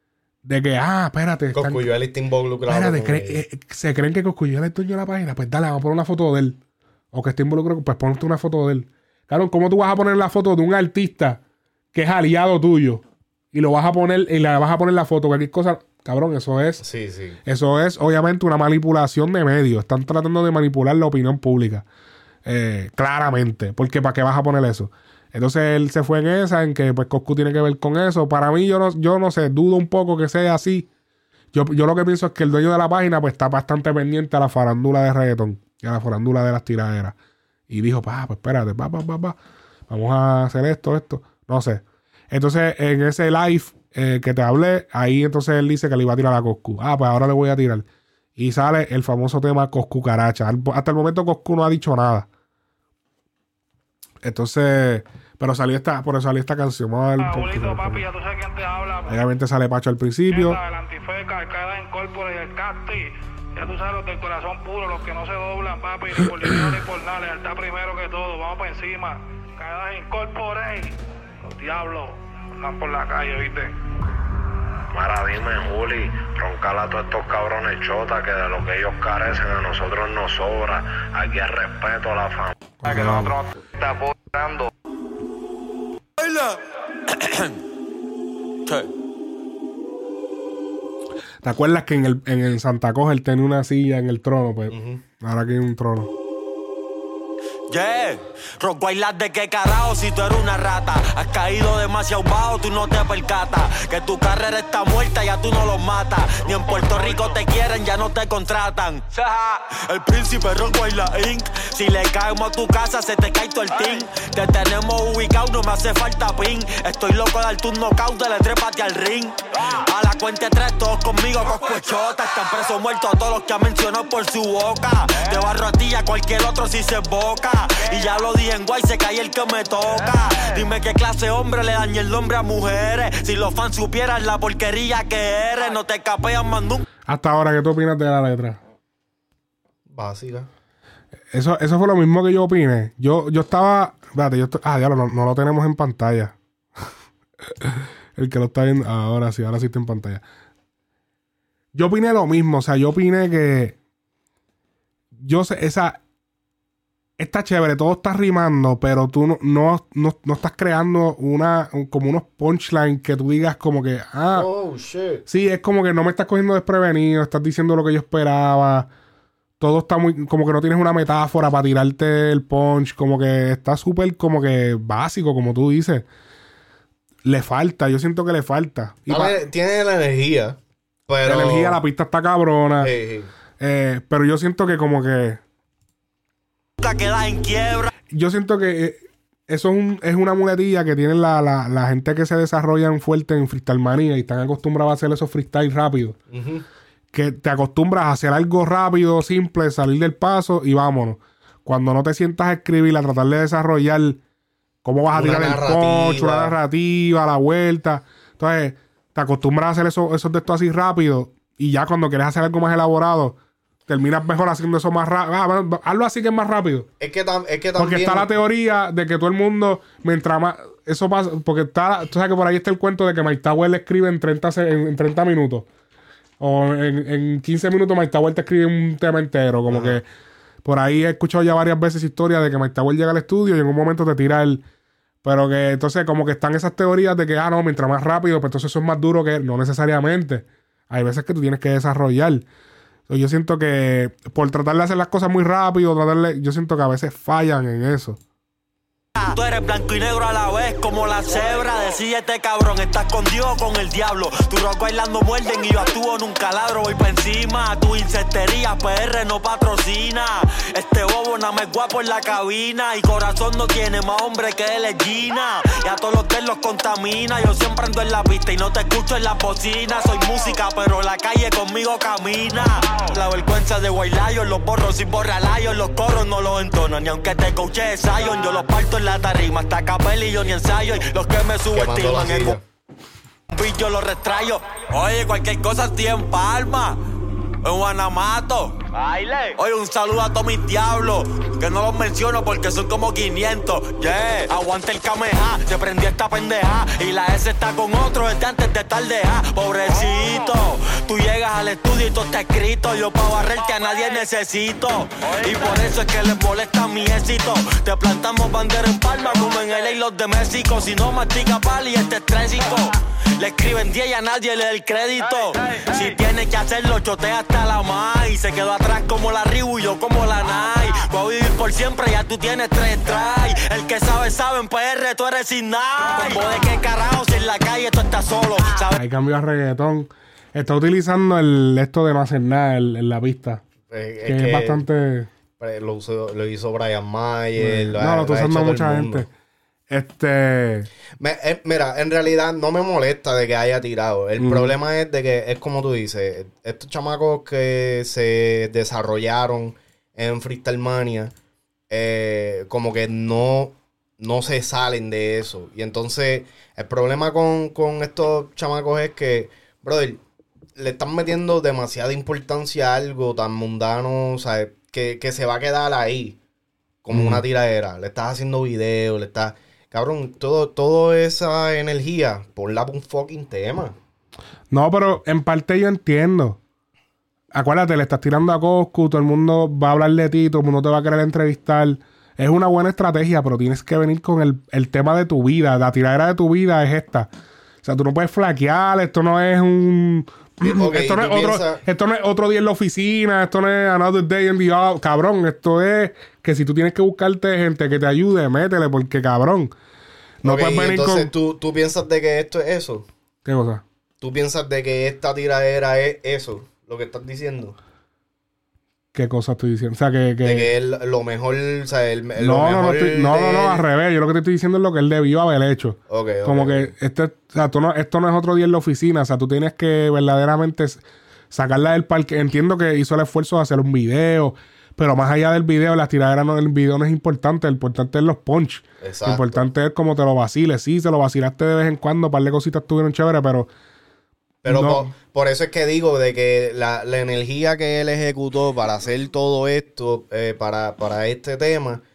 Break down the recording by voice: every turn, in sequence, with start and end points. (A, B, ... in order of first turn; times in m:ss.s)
0:00.4-0:01.8 A
0:01.5-0:03.4 B
0:02.7-0:06.6 A
0:07.1-0:11.4 A
0:11.9-0:13.0 A
0:13.5-0:16.8 A
0:16.8-0:17.4 B
0:17.4-0:21.8 A
0:22.4-0:30.9 A
0:31.5-0:37.2 A
0:37.7-0:39.4 A
0:39.9-0:47.8 A
0:48.4-0:52.3 A
0:54.2-0:58.0 A
0:57.2-0:59.2 C
0:59.1-1:00.6 A
1:00.3-1:11.0 C
1:11.6-1:13.7 C
1:14.9-1:23.4 D
1:22.8-1:23.4 A
1:24.3-1:24.6 D
1:31.4-1:36.1 A
1:34.7-1:35.0 B
1:37.7-2:16.8 E
2:17.0-2:18.6 A
2:19.9-2:20.5 B
2:21.3-2:26.4 A
2:27.6-2:30.2 A
2:31.7-2:33.8 A
2:35.2-2:36.0 A
2:37.2-2:44.5 A
2:44.3-2:45.2 B
2:45.3-2:48.9 A
2:49.6-2:56.0 A
2:57.2-2:59.4 A
2:59.1-3:01.8 B
3:01.2-3:02.9 A
3:02.8-3:03.3 B
3:03.6-3:05.4 A
3:06.8-3:07.9 E
3:08.1-3:16.2 A
3:16.3-3:16.6 B
3:17.1-3:24.2 A
3:24.8-3:36.9 A
3:25.1-3:26.5 B
3:37.0-3:38.3 B
3:37.8-3:45.7 A
3:46.4-3:50.0 A
3:49.7-3:50.0 B
3:50.6-3:54.6 A
3:55.2-4:02.5 A
4:03.1-4:08.2 A
4:09.2-4:42.6 E
4:41.7-4:42.6 B
4:43.5-4:47.0 E
4:47.6-5:29.0 E
5:28.9-5:33.6 A
5:33.9-5:34.8 B
5:34.2-5:35.3 A
5:35.6-5:39.2 B
5:37.6-5:39.3 A
5:39.9-5:40.9 A
5:41.2-5:51.3 B
5:44.4-5:44.7 A
5:51.9-6:00.2 B
6:00.8-6:06.4 B
6:07.0-6:14.0 B
6:07.1-6:07.4 A
6:14.7-6:16.6 A
6:17.5-6:27.3 A
6:27.8-6:39.7 A
6:30.6-6:31.8 B
6:40.4-6:41.3 A
6:40.4-6:43.1 B
6:43.4-6:43.8 A
6:44.2-6:47.8 B
6:49.1-6:50.7 A
6:50.4-6:53.8 B
6:52.4-7:13.7 A
6:56.1-6:56.9 B
7:09.0-7:09.6 B
7:14.6-7:22.0 B
7:14.6-7:15.1 A